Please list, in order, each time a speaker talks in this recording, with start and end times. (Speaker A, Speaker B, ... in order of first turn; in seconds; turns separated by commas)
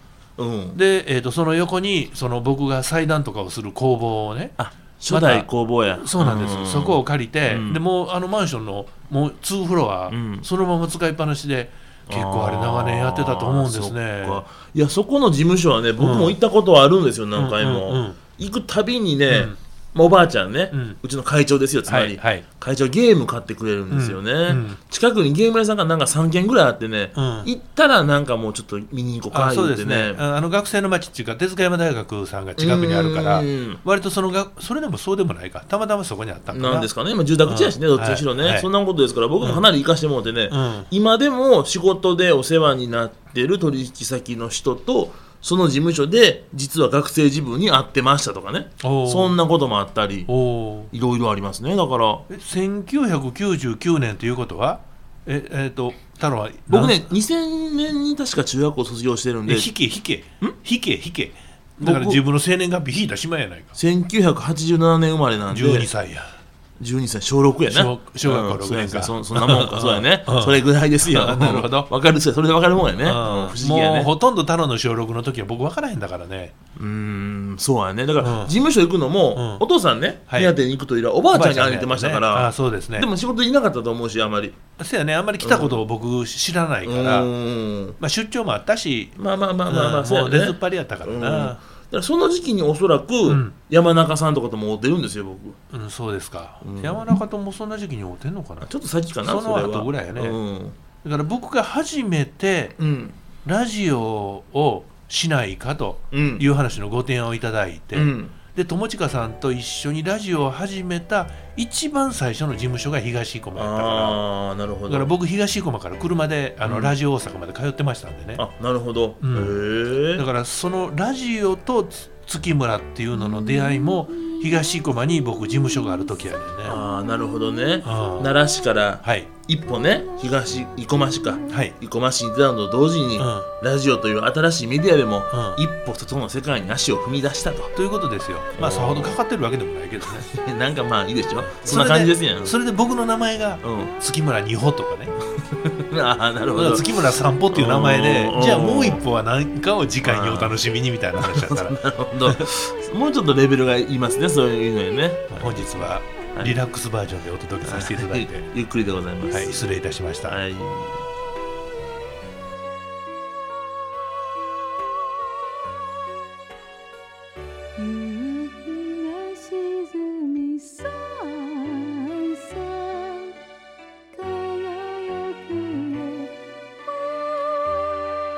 Speaker A: 0.4-0.8, Speaker B: 0.7-4.6, Speaker A: 4.6-7.8, Speaker B: 5.1-5.5, Speaker B: 6.0-14.4, Speaker A: 10.1-10.5, Speaker A: 12.1-30.2, Speaker B: 16.0-16.4, Speaker B: 17.4-18.2, Speaker B: 19.3-19.6, Speaker B: 20.7-21.0, Speaker B: 21.9-22.4, Speaker B: 23.9-24.8, Speaker B: 27.1-27.5, Speaker B: 29.3-36.9, Speaker A: 32.6-33.8, Speaker A: 36.5-50.3, Speaker B: 37.4-38.7, Speaker B: 40.5-40.9, Speaker B: 48.8-49.4, Speaker B: 50.3-50.9, Speaker A: 50.9-52.3, Speaker B: 52.3-57.1, Speaker A: 56.7-59.7, Speaker B: 59.5-63.8, Speaker A: 61.8-62.2, Speaker A: 63.8-65.9, Speaker B: 65.5-66.3, Speaker A: 66.8-74.1, Speaker B: 67.7-71.9, Speaker B: 73.0-76.5, Speaker A: 76.8-84.6, Speaker B: 78.2-78.5, Speaker B: 79.3-79.6, Speaker B: 80.3-80.5, Speaker B: 81.3-83.1, Speaker B: 84.8-87.3, Speaker A: 85.4-85.8, Speaker A: 86.8-88.0, Speaker B: 88.0-89.2, Speaker A: 89.2-95.6, Speaker B: 89.7-91.6, Speaker B: 93.2-93.5, Speaker B: 95.7-98.7, Speaker A: 96.6-97.1, Speaker A: 98.6-100.8, Speaker B: 99.2-100.4, Speaker B: 101.0-102.8, Speaker A: 102.8-103.2, Speaker B: 103.4-114.2, Speaker A: 106.1-106.5, Speaker A: 107.9-108.3, Speaker A: 113.5-115.1, Speaker B: 114.9-118.4, Speaker A: 116.6-116.9, Speaker A: 118.3-120.2, Speaker B: 119.2-126.8, Speaker A: 126.6-137.7, Speaker B: 127.8-128.3, Speaker B: 129.0-129.3, Speaker B: 131.5-131.8, Speaker B: 133.2-133.5, Speaker B: 135.3-135.6, Speaker B: 137.7-140.3, Speaker A: 138.5-139.2, Speaker A: 140.2-142.5, Speaker B: 141.4-145.1, Speaker A: 143.6-143.9, Speaker A: 145.4-149.0, Speaker B: 146.5-152.4, Speaker A: 150.0-150.6, Speaker A: 151.2-156.6, Speaker B: 155.3-158.5, Speaker A: 157.6-159.5, Speaker B: 159.2-160.4, Speaker A: 160.3-161.0, Speaker C: 167.8-173.3, Speaker C: 174.1-176.3